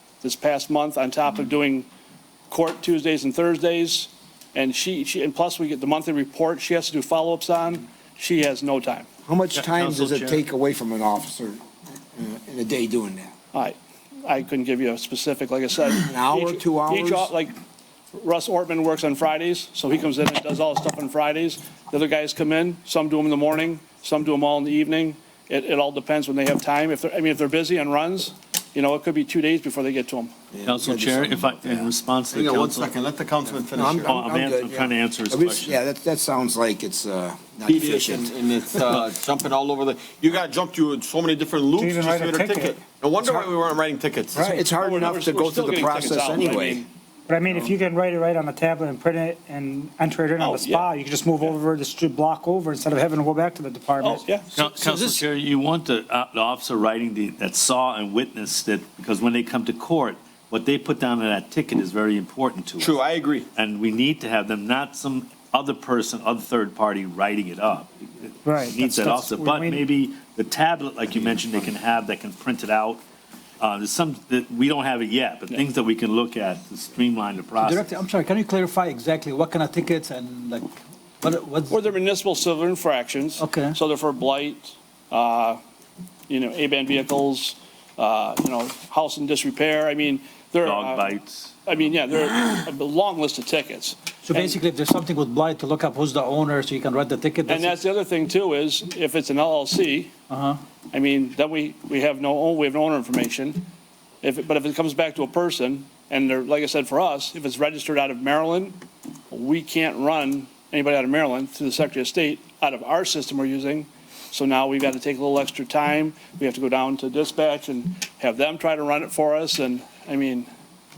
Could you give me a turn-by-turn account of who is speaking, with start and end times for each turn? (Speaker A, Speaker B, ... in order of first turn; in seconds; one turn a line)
Speaker A: 0.2-1.9
Speaker A: 2.5-9.1
Speaker B: 9.2-13.3
Speaker C: 9.8-10.4
Speaker A: 13.5-17.6
Speaker B: 16.1-17.3
Speaker A: 18.1-30.3
Speaker B: 30.5-31.9
Speaker C: 30.7-32.9
Speaker D: 32.3-34.3
Speaker B: 33.6-39.0
Speaker C: 34.1-35.8
Speaker D: 37.7-44.5
Speaker E: 41.8-42.8
Speaker B: 44.4-46.8
Speaker A: 44.5-46.9
Speaker E: 47.3-54.2
Speaker A: 50.4-50.9
Speaker A: 54.0-54.5
Speaker C: 54.5-63.0
Speaker D: 62.8-63.5
Speaker C: 63.6-73.0
Speaker E: 68.4-69.8
Speaker C: 73.6-77.9
Speaker F: 77.6-81.8
Speaker A: 81.7-85.6
Speaker F: 83.4-83.8
Speaker A: 86.3-94.6
Speaker C: 90.6-91.5
Speaker F: 94.2-97.8
Speaker A: 97.5-100.1
Speaker F: 100.3-100.6
Speaker A: 100.9-103.7
Speaker A: 104.2-108.8
Speaker A: 109.3-120.5